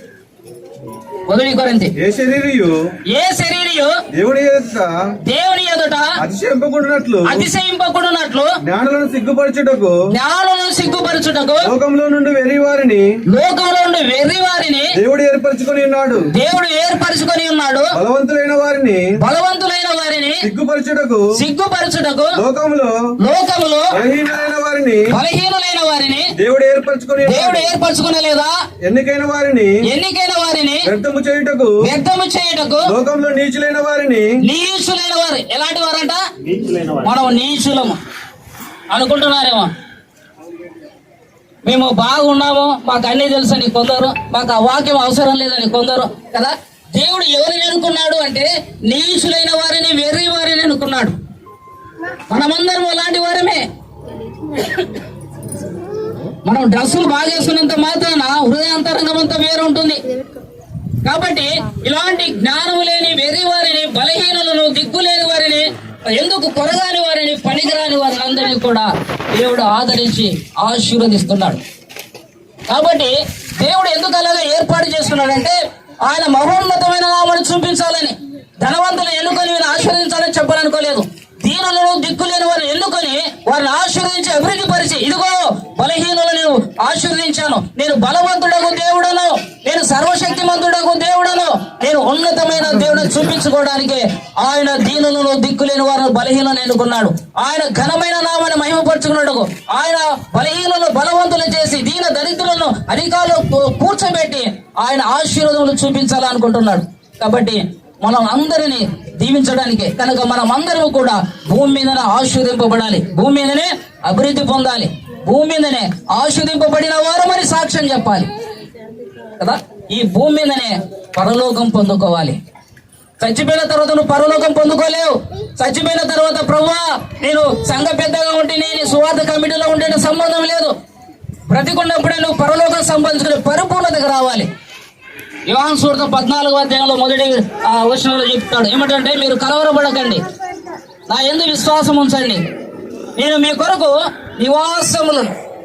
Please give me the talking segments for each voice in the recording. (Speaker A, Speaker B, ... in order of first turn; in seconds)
Speaker A: 1.3-1.9, 3.1-3.9, 5.3-6.1, 7.2-8.5, 10.1-11.7, 13.3-14.9, 16.3-17.9, 19.2-20.5, 21.4-22.4, 23.2-24.0, 25.1-26.3, 27.2-28.6, 29.8-30.9, 31.8-32.9, 34.4-36.2, 36.8-38.0, 38.9-39.7, 41.6-51.2, 52.3-53.6, 56.5-60.0, 61.0-71.6, 72.7-118.3, 119.4-122.4, 123.2-130.8, 131.5-134.5, 135.5-140.2, 141.1-142.4, 143.2-145.3
Speaker B: 2.0-2.8, 4.2-4.9, 6.2-7.4, 8.7-10.0, 11.7-13.1, 15.0-16.2, 18.0-19.0, 20.4-21.3, 22.4-23.0, 24.0-25.1, 26.4-27.7, 28.8-29.8, 30.9-31.8, 32.9-34.3